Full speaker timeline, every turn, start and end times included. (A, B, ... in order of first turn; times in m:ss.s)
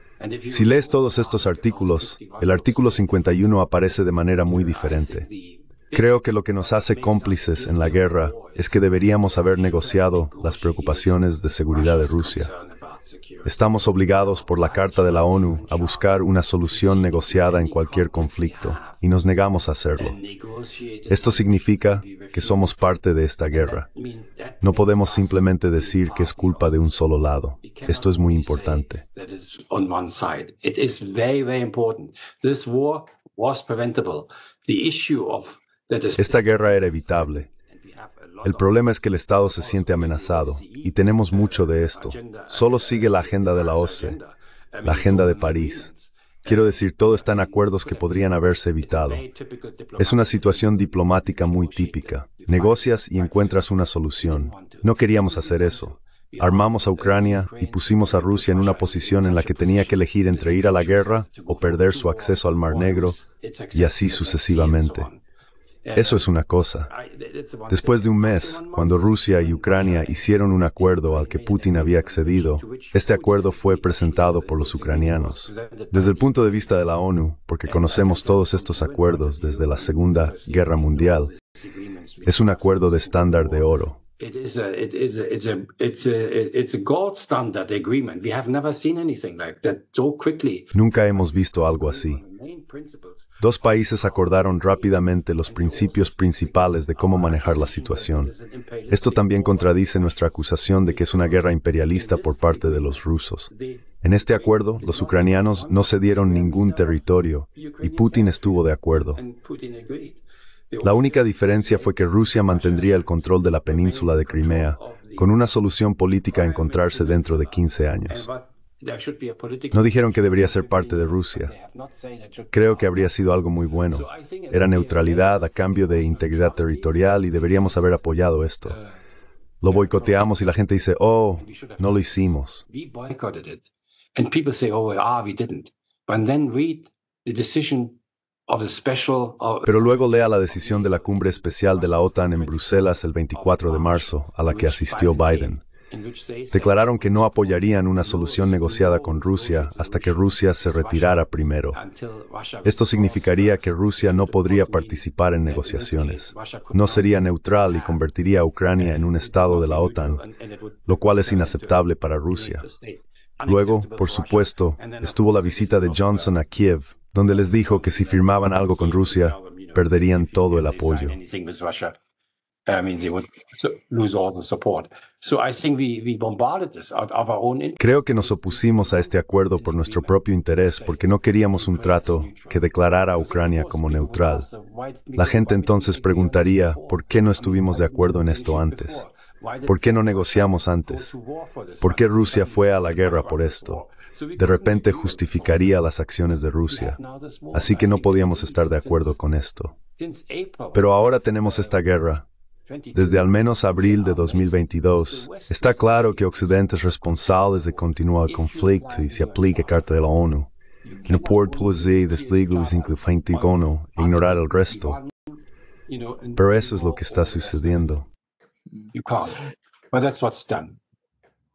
0:00.2-0:03.6 A
0:00.5-0:05.3 B
0:04.4-0:19.0 A
0:05.9-0:12.5 B
0:13.4-0:20.2 B
0:19.9-0:22.9 A
0:21.1-0:23.9 B
0:23.5-0:27.0 A
0:24.6-0:29.0 B
0:27.6-1:05.2 A
0:36.2-0:37.5 B
0:38.4-0:44.2 B
0:44.8-0:45.9 B
0:46.4-0:49.2 B
0:50.0-1:03.2 B
1:03.7-1:05.1 B
1:05.8-1:06.3 A
1:05.9-1:06.9 B
1:06.9-1:16.6 A
1:07.7-1:21.3 B
1:17.6-1:55.3 A
1:22.2-1:24.0 B
1:30.7-1:32.2 B
1:33.4-1:38.3 B
1:38.9-1:43.5 B
1:44.0-1:49.2 B
1:50.8-1:58.3 B
1:56.2-2:03.1 A
1:59.7-2:01.5 B
2:02.5-2:08.8 B
2:03.9-2:08.1 A
2:08.6-2:08.9 A
2:09.6-2:12.6 B
2:09.7-2:10.4 A
2:11.4-2:18.0 A
2:18.5-2:38.0 A
2:19.6-2:25.6 B
2:26.5-2:31.8 B
2:32.6-2:40.2 B
2:38.7-2:46.4 A
2:40.9-2:42.6 B
2:43.4-2:51.2 B
2:47.2-2:51.9 A
2:52.7-3:15.8 A
2:57.8-3:04.5 B
3:05.2-3:09.0 B
3:09.6-3:11.1 B
3:11.8-3:13.8 B
3:14.4-3:17.0 B
3:16.7-3:19.2 A
3:17.5-3:19.8 B
3:19.9-3:21.8 A
3:20.7-3:22.2 B
3:22.7-3:30.1 A
3:22.9-3:30.5 B
3:30.8-3:38.0 A
3:31.1-3:35.0 B
3:36.4-3:38.0 B
3:38.9-3:40.8 A